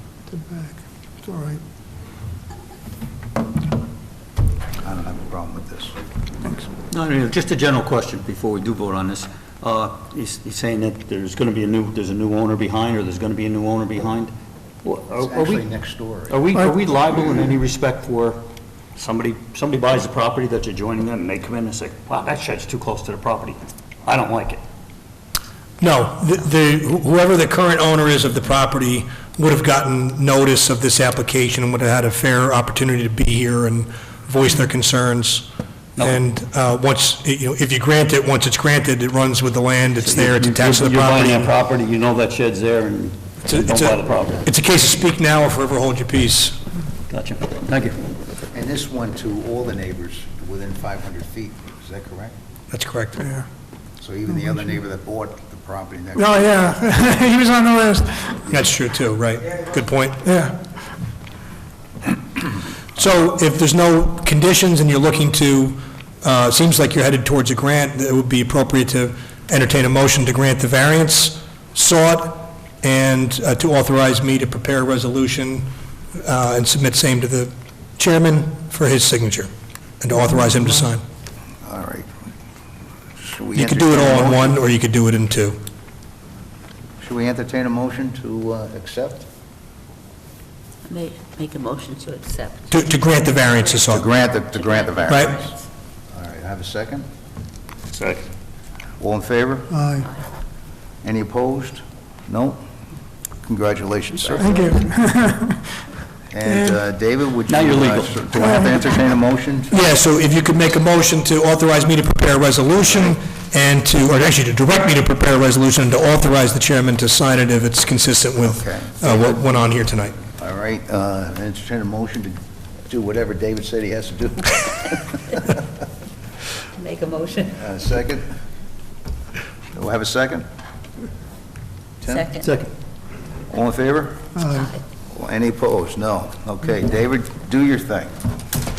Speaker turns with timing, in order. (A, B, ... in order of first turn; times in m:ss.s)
0:00.3-0:01.6 A
0:04.8-0:05.9 B
0:06.9-0:15.6 C
0:15.2-0:16.4 B
0:16.3-0:18.4 C
0:18.9-0:24.6 C
0:25.8-0:35.4 D
0:36.0-0:41.5 D
0:40.0-0:44.4 C
0:43.4-0:46.6 D
0:47.1-0:48.0 C
0:48.5-0:52.3 B
0:52.7-0:53.2 D
0:53.2-0:53.4 E
0:54.0-0:56.5 B
0:56.2-0:58.4 E
0:58.5-1:00.2 D
1:00.2-1:00.6 E
1:03.0-1:19.5 D
1:20.0-1:21.0 D
1:21.6-1:22.1 B
1:23.2-1:24.6 B
1:23.6-1:25.6 D
1:27.0-1:29.2 B
1:30.9-1:32.7 F
1:32.7-1:34.0 D
1:33.8-1:35.6 B
1:34.7-1:35.2 F
1:35.1-1:35.4 D
1:36.1-1:37.1 B
1:37.9-1:38.2 C
1:39.0-1:39.7 B
1:39.7-1:40.1 A
1:41.0-1:42.6 B
1:43.4-1:44.5 B
1:44.3-1:45.8 E
1:46.3-1:49.7 B
1:47.5-1:48.5 C
1:49.7-2:00.1 D
1:58.4-1:59.5 B
2:00.3-2:05.6 B
2:06.7-2:07.6 F
2:07.5-2:08.3 B
2:09.7-2:10.4 B
2:12.0-2:12.3 B
2:12.0-2:12.4 F
2:12.4-2:12.7 C
2:13.5-2:14.4 B
2:14.4-2:14.7 A
2:15.1-2:18.1 B